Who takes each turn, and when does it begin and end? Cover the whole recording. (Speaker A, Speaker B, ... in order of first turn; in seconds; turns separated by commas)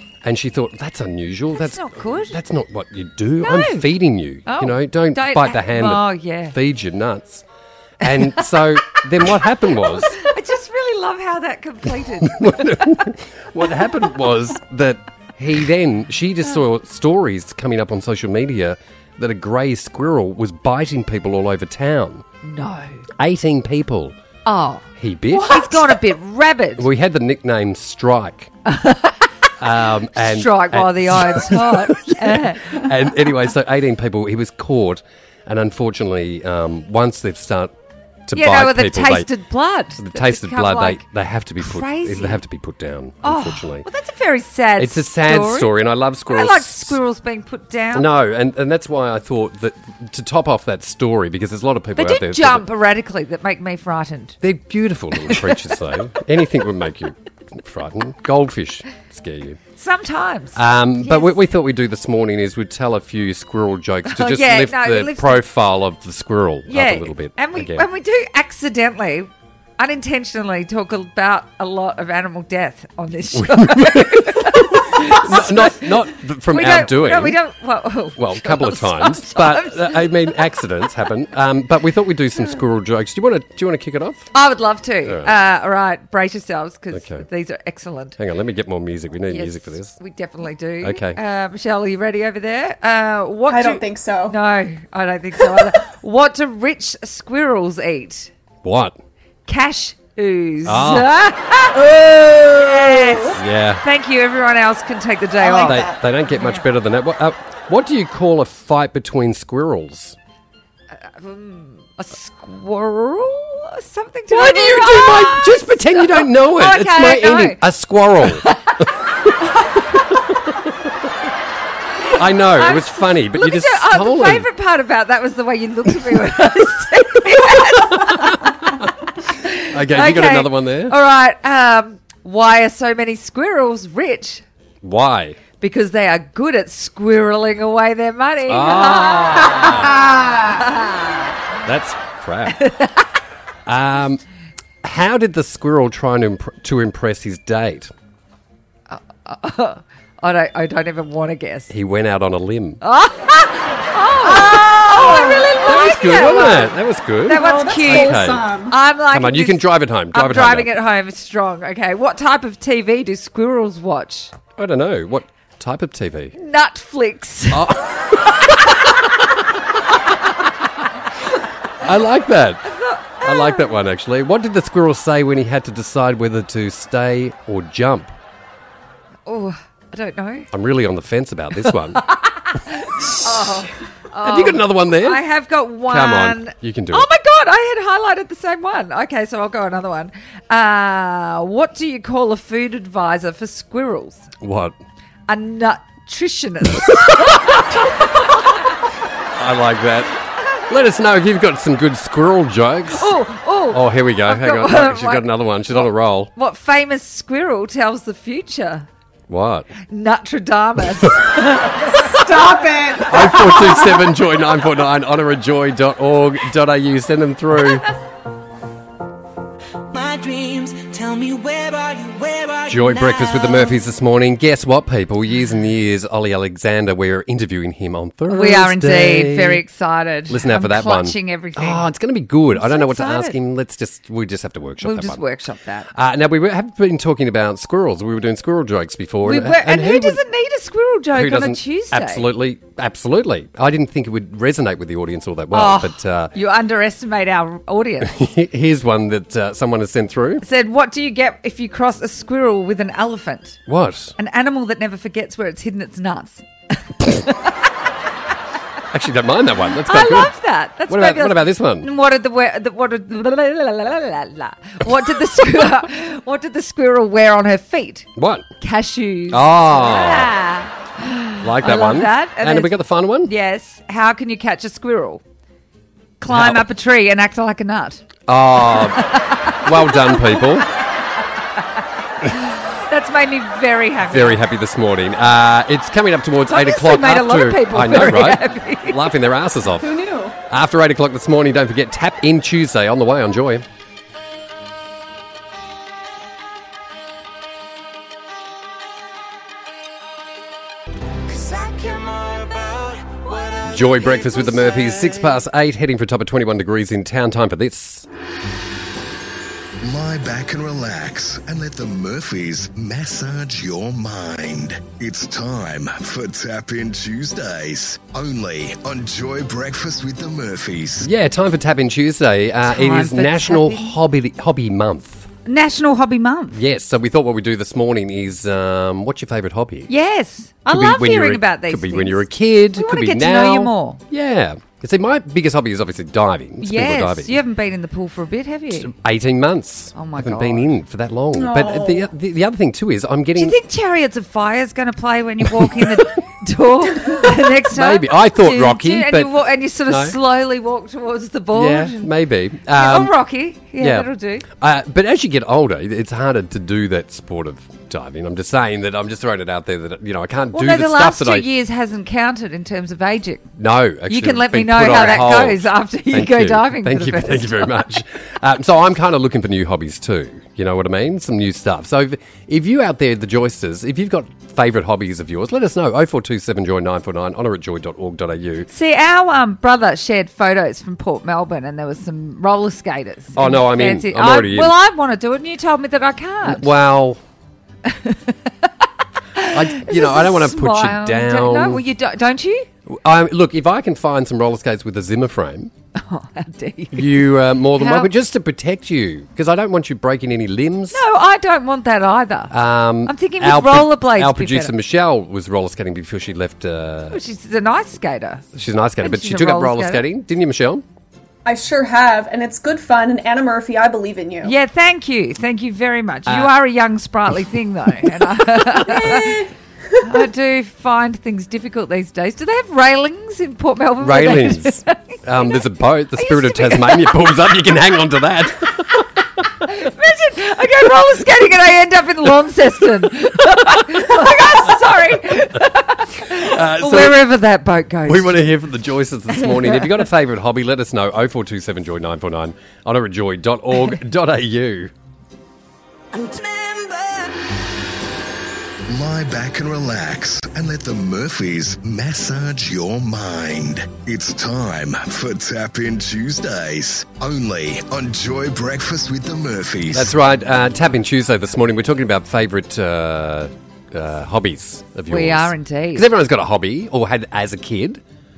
Speaker A: 0.2-7.5, Speaker B: 1.5-2.4, Speaker B: 3.4-3.9, Speaker B: 4.5-6.6, Speaker A: 8.0-10.2, Speaker B: 8.1-8.4, Speaker B: 9.9-13.1, Speaker A: 12.2-22.2, Speaker B: 22.4-23.0, Speaker A: 23.2-24.2, Speaker B: 24.4-26.9, Speaker A: 25.0-25.9, Speaker A: 26.8-28.5, Speaker B: 28.7-29.3, Speaker A: 29.6-37.7, Speaker B: 30.1-32.9, Speaker A: 38.3-39.3, Speaker B: 38.3-41.0, Speaker A: 40.0-43.9, Speaker B: 41.6-42.4, Speaker B: 43.2-45.7, Speaker A: 44.8-47.0, Speaker B: 46.3-48.1, Speaker A: 47.9-52.7, Speaker B: 52.0-54.4, Speaker A: 54.4-59.6, Speaker B: 55.2-55.6, Speaker B: 59.8-61.4, Speaker A: 60.5-67.9, Speaker B: 64.1-65.4, Speaker B: 66.7-80.4, Speaker A: 73.3-77.4, Speaker A: 78.2-84.3, Speaker B: 84.3-88.2, Speaker A: 85.0-85.3, Speaker A: 86.9-87.3, Speaker A: 88.2-90.0, Speaker B: 89.3-98.3, Speaker A: 90.8-91.2, Speaker C: 93.5-94.4, Speaker A: 98.6-99.0, Speaker B: 99.5-101.9, Speaker A: 100.7-101.1, Speaker C: 101.7-103.4, Speaker B: 102.5-106.6, Speaker A: 103.3-103.8, Speaker C: 105.4-106.0, Speaker A: 105.6-110.2, Speaker B: 111.0-117.6, Speaker A: 114.3-118.9, Speaker B: 118.2-118.8, Speaker A: 120.1-120.7, Speaker A: 122.1-124.5, Speaker B: 122.1-128.6, Speaker A: 127.9-128.9, Speaker B: 129.4-134.4, Speaker A: 129.6-131.0, Speaker A: 134.8-135.4, Speaker B: 135.6-141.4, Speaker A: 138.5-140.1, Speaker C: 140.1-140.5, Speaker A: 141.6-142.7, Speaker B: 142.5-143.1, Speaker A: 143.7-144.2, Speaker A: 144.8-147.9, Speaker B: 148.9-151.7, Speaker A: 151.7-152.8, Speaker B: 152.8-164.3, Speaker A: 154.2-158.5, Speaker C: 154.9-155.6, Speaker C: 157.3-158.8, Speaker A: 159.1-160.7, Speaker A: 164.6-166.3, Speaker B: 166.4-167.7, Speaker A: 167.5-168.8, Speaker A: 171.8-172.7, Speaker B: 172.7-173.8, Speaker A: 173.2-178.1, Speaker B: 179.3-180.5, Speaker A: 180.5-182.0, Speaker B: 181.7-194.3, Speaker A: 184.2-185.2, Speaker A: 185.9-187.1, Speaker A: 194.4-194.8, Speaker B: 195.3-198.3, Speaker A: 199.3-203.1, Speaker B: 202.9-208.9, Speaker A: 203.7-206.3, Speaker A: 209.3-209.7, Speaker B: 209.9-213.5, Speaker C: 211.9-214.0, Speaker A: 213.1-217.9, Speaker D: 219.9-223.7, Speaker A: 222.7-229.6, Speaker B: 228.3-231.9, Speaker A: 230.3-235.2, Speaker B: 232.5-233.4, Speaker B: 234.8-235.9, Speaker A: 235.9-240.2, Speaker B: 239.2-242.3, Speaker A: 241.1-246.3, Speaker B: 245.5-248.2, Speaker A: 248.0-250.4, Speaker B: 250.4-253.6, Speaker A: 253.7-254.2, Speaker B: 254.2-256.5, Speaker B: 257.0-257.5, Speaker A: 258.9-260.4, Speaker B: 259.8-268.1, Speaker A: 260.9-261.9, Speaker A: 268.2-268.5, Speaker B: 268.6-275.2, Speaker A: 269.3-270.3, Speaker A: 271.4-273.3, Speaker B: 276.2-278.0, Speaker A: 276.3-276.6, Speaker A: 278.3-280.7, Speaker B: 278.9-280.5, Speaker B: 282.3-284.4, Speaker A: 284.1-293.6, Speaker B: 286.5-289.0, Speaker C: 289.8-290.4, Speaker D: 301.3-305.2, Speaker A: 303.6-308.1, Speaker E: 309.8-321.1, Speaker A: 321.0-325.3, Speaker B: 322.6-323.9, Speaker B: 325.5-326.6, Speaker A: 326.5-329.9, Speaker B: 329.9-334.0, Speaker A: 330.7-337.4, Speaker B: 336.6-338.9, Speaker A: 338.7-343.6, Speaker B: 339.9-340.7, Speaker C: 341.3-342.1, Speaker B: 343.4-352.1, Speaker A: 345.4-346.0, Speaker A: 347.6-350.2, Speaker A: 351.5-353.2, Speaker B: 352.7-354.5, Speaker A: 353.8-361.5, Speaker B: 360.5-363.5, Speaker A: 363.6-378.7, Speaker B: 364.1-367.8, Speaker B: 378.7-386.7, Speaker A: 383.4-384.8, Speaker A: 386.4-387.2, Speaker B: 387.9-388.7, Speaker B: 389.4-392.7, Speaker A: 389.5-391.8, Speaker A: 392.9-395.7, Speaker B: 396.0-397.2, Speaker A: 396.9-401.0, Speaker B: 397.7-398.1, Speaker B: 400.9-402.5, Speaker A: 402.5-407.2, Speaker B: 403.1-404.7, Speaker B: 407.1-408.4, Speaker A: 408.5-410.9, Speaker B: 409.0-410.0, Speaker C: 411.4-414.5, Speaker B: 414.4-419.4, Speaker A: 416.3-416.5, Speaker C: 418.8-419.5, Speaker B: 420.0-425.2, Speaker A: 424.0-429.0, Speaker B: 426.2-427.3, Speaker B: 429.6-438.4, Speaker A: 433.9-434.3, Speaker A: 436.3-437.3, Speaker A: 438.1-444.9, Speaker B: 439.4-439.9, Speaker D: 446.1-447.4, Speaker E: 448.9-460.1, Speaker A: 459.9-468.0, Speaker B: 465.1-466.1